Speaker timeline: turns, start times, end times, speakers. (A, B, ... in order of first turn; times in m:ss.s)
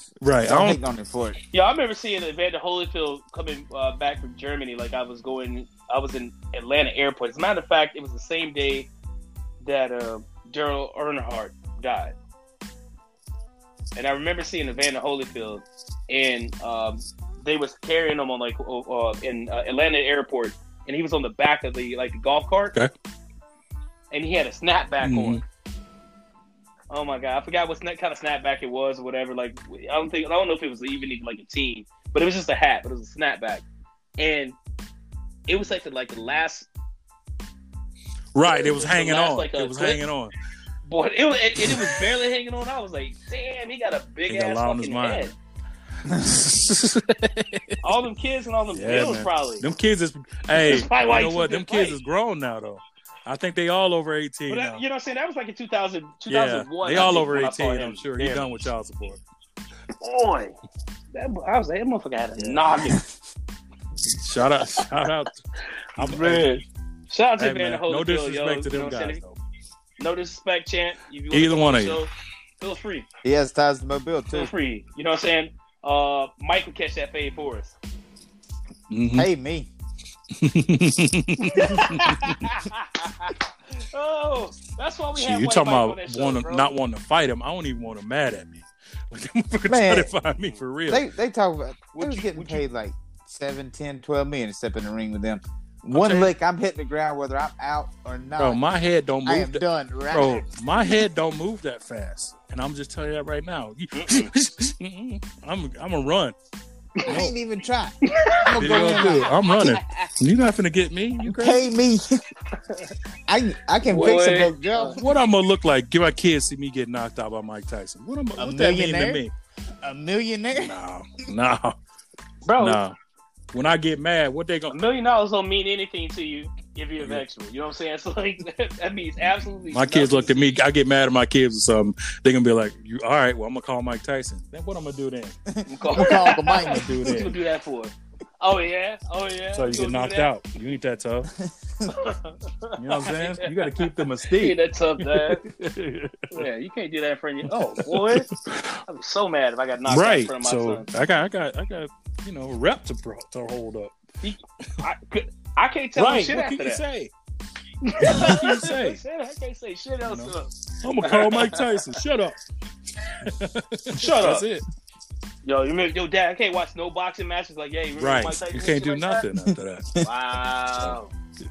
0:00.2-0:00.8 A
0:00.4-0:01.4 B
0:01.5-0:08.9 C
0:09.6-0:12.2 C
0:14.0-0:22.8 C
0:24.1-0:25.4 C
0:25.0-0:25.4 A
0:26.9-0:33.6 C
0:34.2-0:34.6 C
0:35.5-0:36.7 C
0:38.4-0:40.3 A
0:38.5-0:40.0 C
0:40.9-0:45.3 C
0:41.6-0:42.0 A
0:44.3-0:45.4 A
0:46.1-0:46.4 B
0:46.3-0:47.8 A
0:47.8-0:49.7 C
0:48.7-0:54.8 A
0:50.6-0:52.0 C
0:54.5-0:58.5 C
0:56.3-0:59.2 A
1:00.0-1:00.6 C
1:01.1-1:03.0 C
1:02.4-1:02.6 A
1:04.2-1:05.4 A
1:06.0-1:06.6 A
1:06.0-1:09.2 C
1:07.4-1:09.4 A
1:10.0-1:13.1 C
1:11.3-1:12.0 A
1:13.2-1:14.5 B
1:14.3-1:17.8 C
1:18.9-1:19.3 A
1:19.2-1:19.7 B
1:20.4-1:22.4 A
1:21.4-1:26.7 C
1:25.2-1:31.1 A
1:29.7-1:30.1 B
1:30.9-1:38.6 B
1:32.0-1:32.6 C
1:35.9-1:36.3 A
1:38.4-1:46.4 A
1:39.2-1:40.4 B
1:43.9-1:44.3 C
1:47.1-1:47.4 A
1:47.1-1:49.3 B
1:48.0-1:50.1 C
1:48.5-1:51.7 A
1:51.2-1:52.2 B
1:52.6-1:52.9 C
1:53.3-1:55.0 B
1:53.8-1:55.0 C
1:54.9-1:59.3 A
1:58.4-1:59.2 B
1:59.8-2:00.8 B
2:00.5-2:01.8 A
2:02.4-2:02.8 C
2:02.6-2:03.0 A
2:03.5-2:04.8 A
2:04.7-2:10.4 C
2:07.0-2:07.2 A
2:09.7-2:15.4 A
2:15.5-2:17.0 B
2:15.7-2:20.3 C
2:16.1-2:17.4 A
2:19.5-2:21.3 A
2:21.4-2:22.1 B
2:21.9-2:25.4 C
2:22.8-2:26.5 A
2:26.3-2:28.3 C
2:27.6-2:28.8 A
2:28.9-2:30.9 C
2:29.9-2:33.9 A
2:34.2-2:36.8 C
2:36.0-2:37.1 A
2:37.8-2:41.9 C
2:38.0-2:39.0 A
2:40.1-2:42.4 A
2:43.2-2:44.6 A
2:44.0-2:44.5 C
2:45.4-2:49.2 C
2:48.0-2:50.0 A
2:50.0-2:51.1 C